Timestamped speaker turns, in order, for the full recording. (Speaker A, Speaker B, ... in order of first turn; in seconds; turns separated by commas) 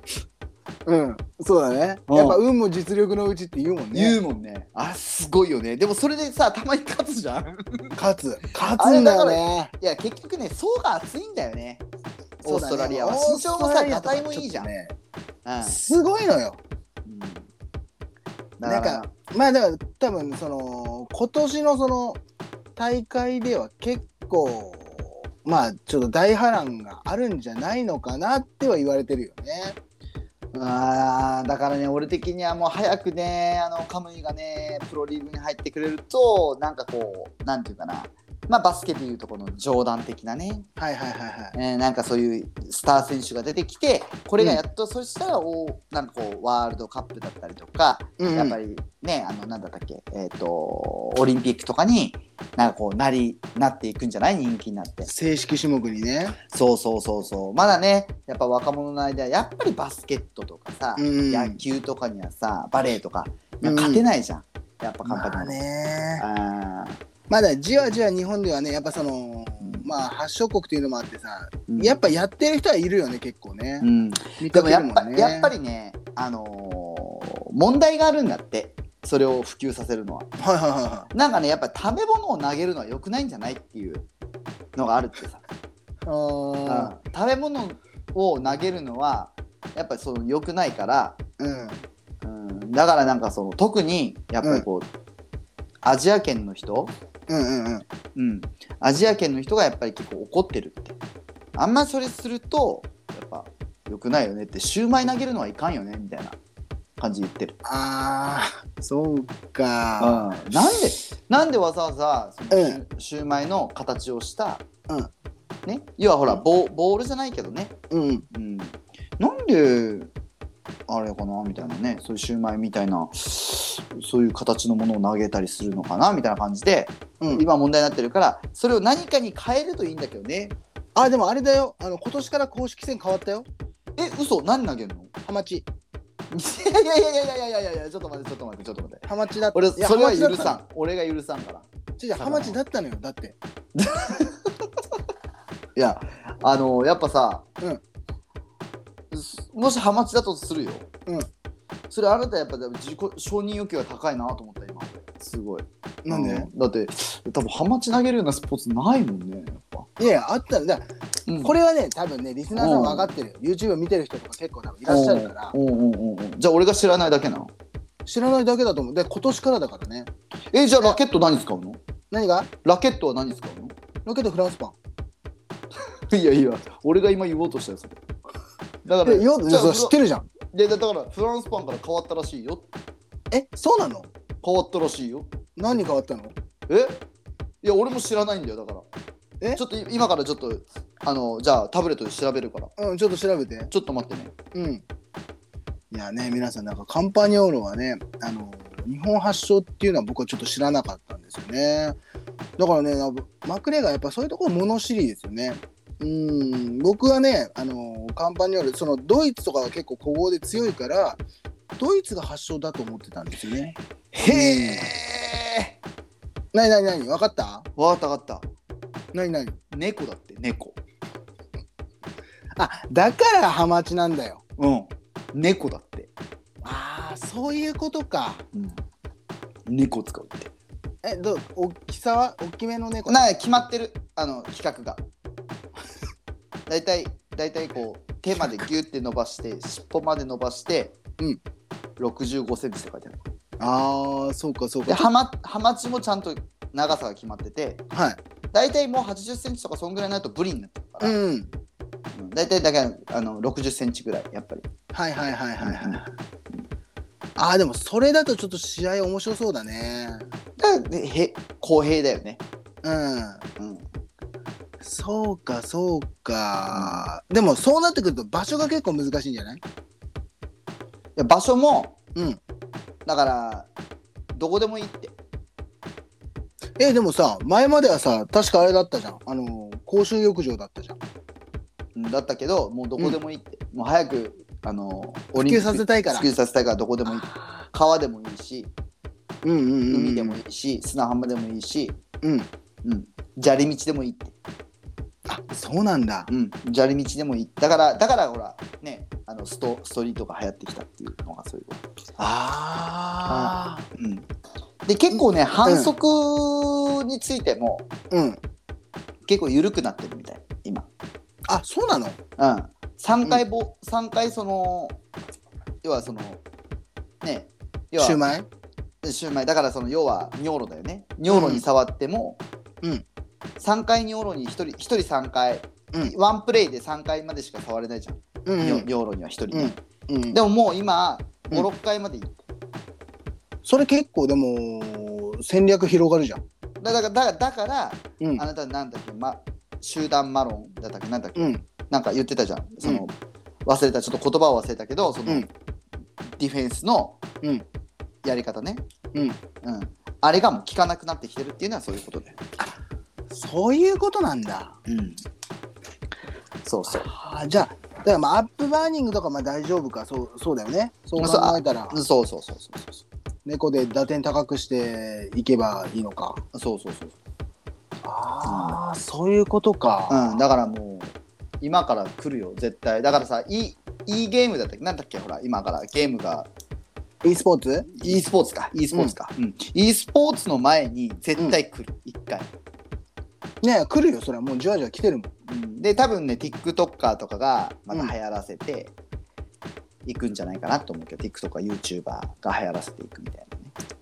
Speaker A: 0.8-4.2, Speaker B: 2.1-2.4, Speaker B: 3.9-8.0, Speaker A: 8.0-9.7, Speaker B: 8.6-11.8, Speaker B: 12.4-14.7, Speaker A: 12.4-14.9, Speaker B: 15.4-15.8, Speaker A: 15.6-16.6, Speaker B: 17.1-17.5, Speaker B: 18.6-19.1, Speaker A: 18.6-22.2, Speaker A: 22.8-29.8, Speaker B: 30.5-40.7, Speaker A: 40.8-41.5, Speaker B: 41.5-55.1, Speaker A: 48.2-48.6, Speaker A: 55.0-56.4, Speaker B: 56.5-65.6, Speaker A: 61.0-61.6, Speaker A: 63.6-64.0, Speaker A: 65.0-66.2, Speaker B: 66.2-67.0, Speaker A: 67.3-73.9, Speaker B: 71.7-72.0, Speaker B: 73.8-80.3, Speaker A: 74.4-75.5, Speaker A: 80.4-81.1, Speaker B: 81.1-84.0, Speaker B: 84.8-85.4, Speaker A: 86.0-86.9, Speaker B: 86.6-91.2, Speaker A: 91.4-91.8, Speaker B: 92.2-94.9, Speaker B: 95.8-96.9, Speaker A: 97.3-97.8, Speaker B: 98.1-101.0, Speaker B: 101.5-106.4, Speaker B: 107.0-107.5, Speaker A: 107.6-110.3, Speaker B: 110.0-114.6, Speaker A: 112.5-112.8, Speaker B: 115.7-117.8, Speaker A: 117.9-118.2, Speaker B: 118.3-120.1, Speaker B: 120.9-130.6, Speaker A: 127.2-127.4, Speaker A: 130.9-133.5, Speaker B: 134.0-135.1, Speaker A: 135.2-135.7, Speaker B: 136.3-142.6, Speaker A: 139.1-140.5, Speaker A: 142.0-143.3, Speaker B: 143.8-144.5, Speaker B: 145.8-147.4, Speaker B: 149.1-150.9, Speaker B: 151.9-159.9, Speaker A: 156.0-156.5, Speaker A: 160.0-160.9, Speaker B: 161.3-161.5, Speaker A: 161.4-165.5, Speaker B: 162.5-163.1, Speaker B: 164.8-167.5, Speaker A: 168.1-170.1, Speaker B: 170.5-171.8, Speaker A: 172.1-172.5, Speaker B: 172.6-173.8, Speaker A: 174.1-174.7, Speaker B: 176.1-178.0, Speaker B: 178.8-179.9, Speaker A: 179.0-180.3, Speaker B: 180.5-182.7, Speaker A: 183.3-184.1, Speaker B: 184.4-185.3, Speaker A: 185.6-186.3, Speaker B: 186.7-187.0, Speaker B: 187.6-188.9, Speaker B: 189.5-192.7, Speaker A: 192.8-193.7, Speaker B: 193.7-194.3, Speaker A: 194.5-194.8, Speaker A: 195.9-202.0, Speaker A: 202.6-211.2, Speaker A: 211.8-214.9, Speaker B: 214.1-215.7, Speaker A: 216.5-217.7, Speaker B: 217.8-218.5, Speaker A: 219.1-219.6, Speaker B: 219.7-220.8, Speaker A: 222.6-224.4, Speaker B: 224.6-226.1, Speaker A: 226.6-228.4, Speaker B: 228.5-228.8, Speaker B: 229.7-230.5, Speaker A: 231.0-233.2, Speaker B: 233.1-235.0, Speaker B: 236.7-241.0, Speaker B: 242.0-243.2, Speaker A: 243.6-245.1, Speaker B: 244.9-247.8, Speaker A: 247.9-248.2, Speaker B: 248.5-251.2, Speaker A: 251.0-251.5, Speaker B: 252.1-254.7, Speaker A: 254.9-256.1, Speaker B: 255.6-256.0, Speaker A: 257.4-260.3, Speaker B: 260.6-262.4, Speaker A: 262.8-263.4, Speaker B: 263.6-263.8, Speaker A: 264.8-269.6, Speaker B: 266.7-267.1, Speaker B: 271.1-271.9, Speaker A: 272.1-272.4, Speaker B: 273.1-273.7, Speaker B: 274.3-275.1, Speaker A: 276.8-281.0, Speaker B: 281.9-288.7, Speaker A: 285.4-286.2, Speaker A: 287.1-287.7, Speaker A: 289.4-290.4, Speaker B: 289.9-292.0, Speaker A: 292.2-292.5, Speaker B: 292.8-294.3, Speaker A: 295.3-296.3, Speaker B: 296.3-301.8, Speaker A: 302.2-303.8, Speaker B: 303.3-304.3, Speaker B: 304.9-307.9, Speaker A: 305.1-305.9, Speaker A: 308.1-308.4, Speaker B: 309.2-310.9, Speaker A: 311.5-312.2, Speaker B: 312.4-315.0, Speaker B: 315.8-316.4, Speaker B: 317.2-318.2, Speaker A: 318.0-318.5, Speaker B: 319.0-322.4, Speaker A: 321.3-321.6, Speaker B: 323.6-329.8, Speaker A: 328.4-328.9, Speaker A: 329.5-330.4, Speaker B: 330.3-332.4, Speaker A: 333.6-336.4, Speaker B: 336.8-343.1, Speaker A: 341.4-341.6, Speaker B: 343.6-345.5, Speaker B: 346.4-347.2, Speaker B: 348.2-348.8, Speaker B: 349.6-352.4, Speaker A: 353.3-354.8, Speaker B: 354.9-355.2, Speaker B: 356.6-357.1, Speaker A: 356.9-362.0, Speaker B: 361.2-363.0, Speaker A: 363.4-366.4, Speaker B: 366.5-367.2, Speaker A: 368.0-370.4, Speaker B: 368.4-368.8, Speaker B: 370.1-376.5, Speaker A: 377.2-378.2, Speaker B: 377.9-382.5, Speaker A: 383.6-385.3, Speaker B: 385.5-388.9, Speaker B: 390.0-393.7